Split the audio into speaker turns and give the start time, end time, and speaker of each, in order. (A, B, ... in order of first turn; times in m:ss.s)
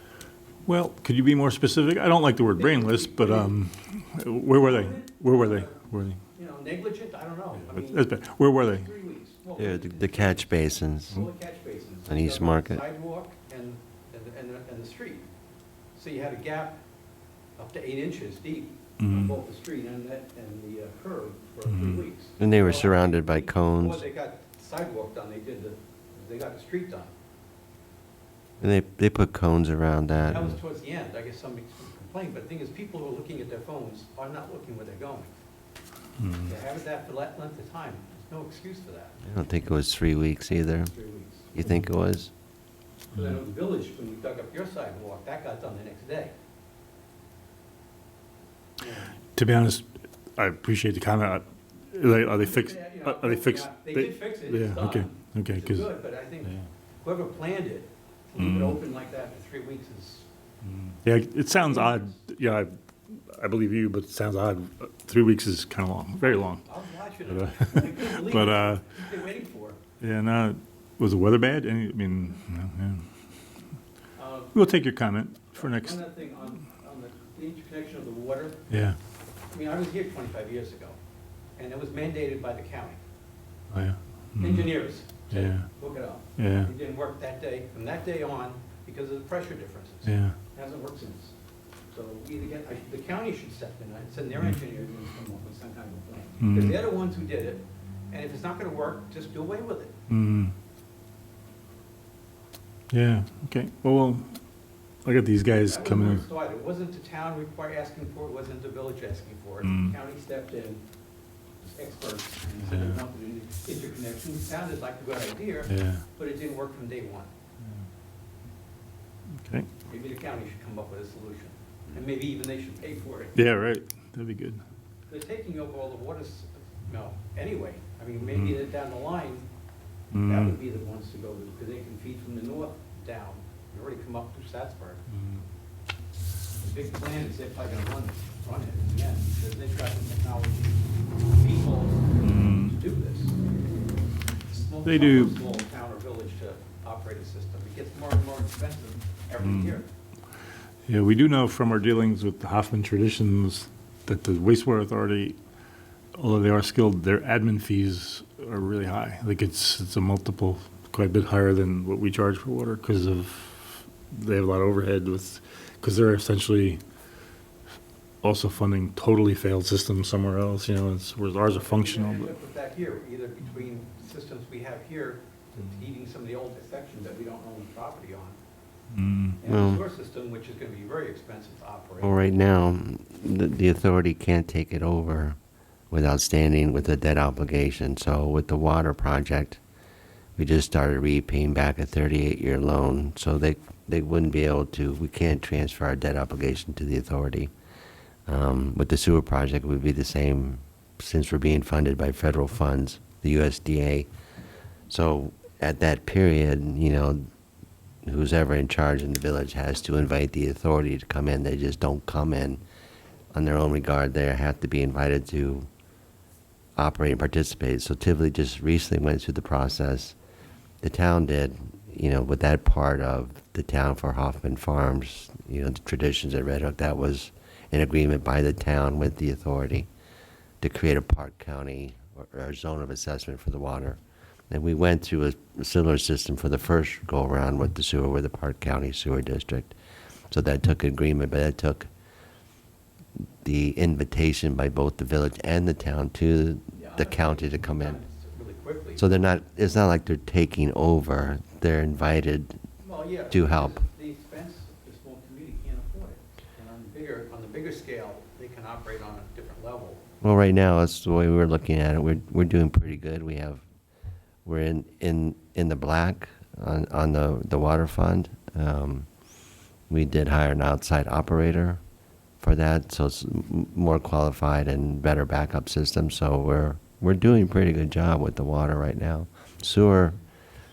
0:00.6-0:06.2 A
0:02.6-0:03.5 B
0:04.6-0:15.2 B
0:07.7-0:08.9 A
0:09.6-0:11.1 C
0:12.1-0:12.8 C
0:15.9-0:16.8 B
0:17.6-0:27.1 B
0:19.0-0:19.4 A
0:21.7-0:22.0 A
0:22.4-0:24.0 C
0:28.6-0:30.6 C
0:30.3-0:35.4 B
0:36.2-0:36.5 A
0:36.4-0:39.2 B
0:39.2-0:40.9 C
0:40.9-0:41.5 B
0:41.5-0:42.3 C
0:43.1-0:46.3 B
0:48.8-0:49.1 B
0:49.4-0:55.9 A
0:52.3-1:00.3 B
0:58.4-0:58.8 A
1:01.0-1:06.6 A
1:01.5-1:02.2 B
1:06.2-1:09.8 B
1:07.3-1:08.8 A
1:10.0-1:13.0 A
1:14.2-1:14.6 B
1:14.5-1:16.0 A
1:15.5-1:18.6 B
1:18.7-1:19.0 A
1:19.5-1:21.0 B
1:21.6-1:23.0 B
1:23.7-1:24.7 A
1:24.4-1:31.3 B
1:25.3-1:25.6 A
1:26.4-1:26.7 A
1:30.0-1:30.3 A
1:31.9-1:40.0 B
1:36.4-1:36.8 A
1:40.1-1:40.5 A
1:42.9-1:44.3 A
1:45.0-1:46.2 A
1:45.6-1:50.8 B
1:49.6-1:49.9 A
1:51.6-1:57.3 B
1:52.7-1:53.0 A
1:55.7-1:56.0 A
1:59.4-1:59.7 A
1:59.9-2:03.4 B
2:03.3-2:04.6 A
2:05.1-2:09.5 B
2:10.1-2:10.6 A
2:10.2-2:15.0 B
2:16.6-2:23.4 B
2:22.2-2:22.7 A
2:24.5-2:29.9 B
2:24.8-2:25.4 A
2:29.4-2:29.7 A
2:30.9-2:35.4 A
2:36.1-2:46.8 A
2:48.2-2:52.3 A
2:51.4-2:58.4 B
2:58.9-2:59.4 A
2:59.4-3:02.2 B
2:59.4-2:59.8 C
3:02.0-3:05.4 C
3:05.9-3:09.6 C
3:10.4-3:17.5 C
3:18.3-3:24.1 C
3:24.9-3:27.2 C
3:28.0-3:32.6 C
3:33.3-3:35.7 C
3:36.8-3:40.1 C
3:40.8-3:49.9 C
3:50.6-3:54.0 C
3:54.5-3:59.7 C
4:00.3-4:01.9 C
4:03.4-4:08.0 C
4:06.7-4:09.1 B
4:09.0-4:12.6 C
4:12.8-4:20.0 B
4:13.3-4:13.8 C
4:20.2-4:23.6 C
4:24.4-4:29.1 C
4:29.9-4:31.8 C
4:32.4-4:40.2 C